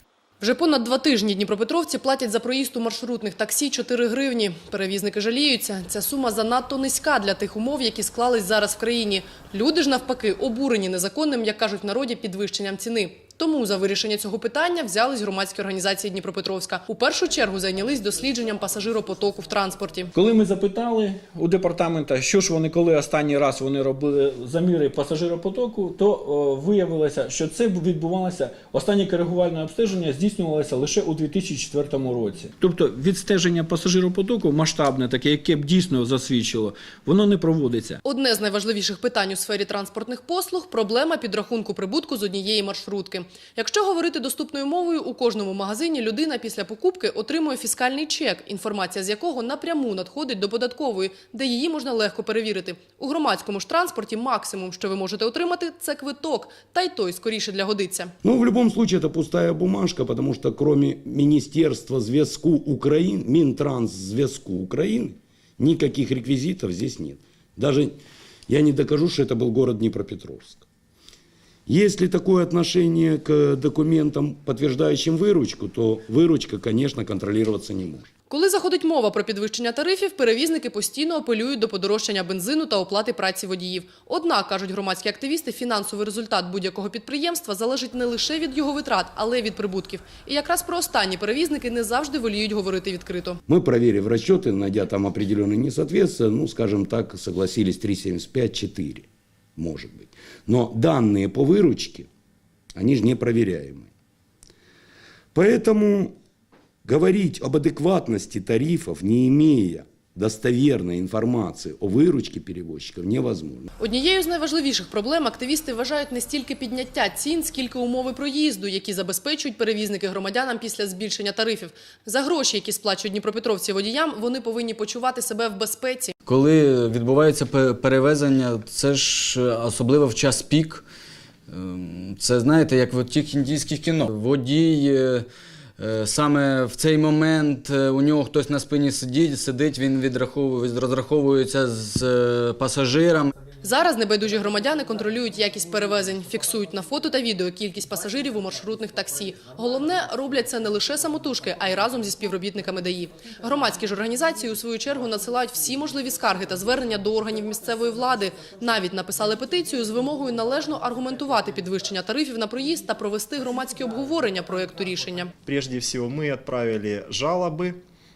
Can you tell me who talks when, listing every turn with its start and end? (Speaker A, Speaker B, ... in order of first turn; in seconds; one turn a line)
Speaker A: 0.4-20.1
Speaker B: 20.3-38.0
Speaker A: 38.0-58.1
Speaker C: 58.2-68.0
Speaker C: 68.5-70.7
Speaker C: 71.7-78.1
Speaker A: 78.3-93.4
Speaker C: 93.5-102.1
Speaker C: 102.7-103.9
Speaker C: 105.3-106.1
Speaker C: 106.8-113.7
Speaker A: 113.8-126.1
Speaker D: 126.2-130.8
Speaker D: 131.5-135.2
Speaker D: 135.8-143.3
Speaker A: 143.6-165.3
Speaker E: 165.4-167.8